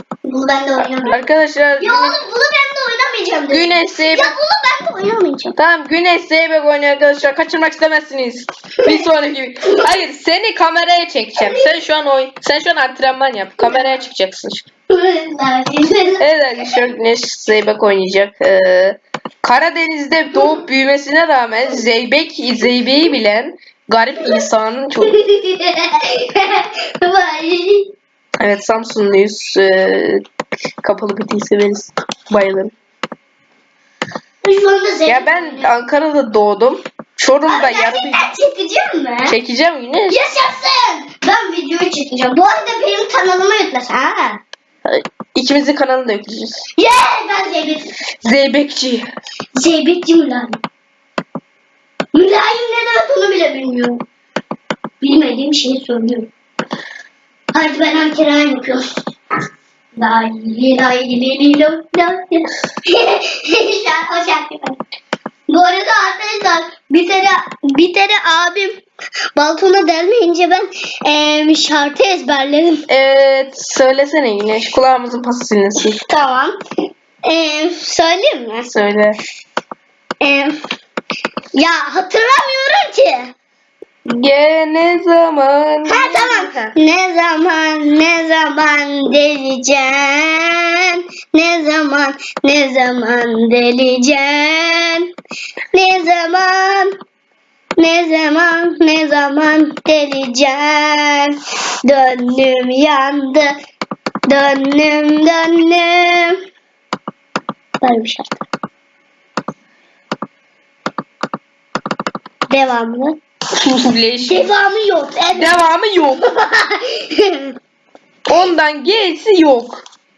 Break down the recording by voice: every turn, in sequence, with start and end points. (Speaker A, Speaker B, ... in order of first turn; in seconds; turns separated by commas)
Speaker A: 0.2-1.3, Speaker B: 1.0-2.2, Speaker A: 1.8-5.5, Speaker B: 3.5-4.3, Speaker B: 5.5-14.6, Speaker A: 11.4-11.7, Speaker A: 13.6-13.9, Speaker A: 14.9-16.8, Speaker B: 16.2-25.2, Speaker A: 25.0-27.9, Speaker B: 28.4-30.2, Speaker B: 30.8-32.7, Speaker A: 34.4-35.7, Speaker B: 35.0-38.3, Speaker A: 37.5-39.4, Speaker B: 39.3-40.2, Speaker A: 40.1-44.4, Speaker B: 44.8-46.6, Speaker A: 46.8-47.9, Speaker B: 48.2-49.1, Speaker A: 49.5-50.6, Speaker A: 52.1-54.0, Speaker A: 55.0-56.3, Speaker A: 57.5-58.8, Speaker A: 60.0-64.8, Speaker A: 65.5-68.8, Speaker A: 69.3-72.8, Speaker B: 72.9-76.0, Speaker A: 75.8-76.6, Speaker A: 77.2-78.7, Speaker B: 78.7-79.2, Speaker A: 80.2-80.6, Speaker A: 81.5-83.3, Speaker B: 84.0-86.7, Speaker A: 85.9-95.1, Speaker A: 95.7-96.9, Speaker A: 97.8-103.5, Speaker A: 104.3-106.4, Speaker A: 107.8-108.4, Speaker A: 112.5-113.2, Speaker B: 113.5-114.5, Speaker A: 114.2-117.5, Speaker B: 115.3-116.3, Speaker B: 118.3-119.8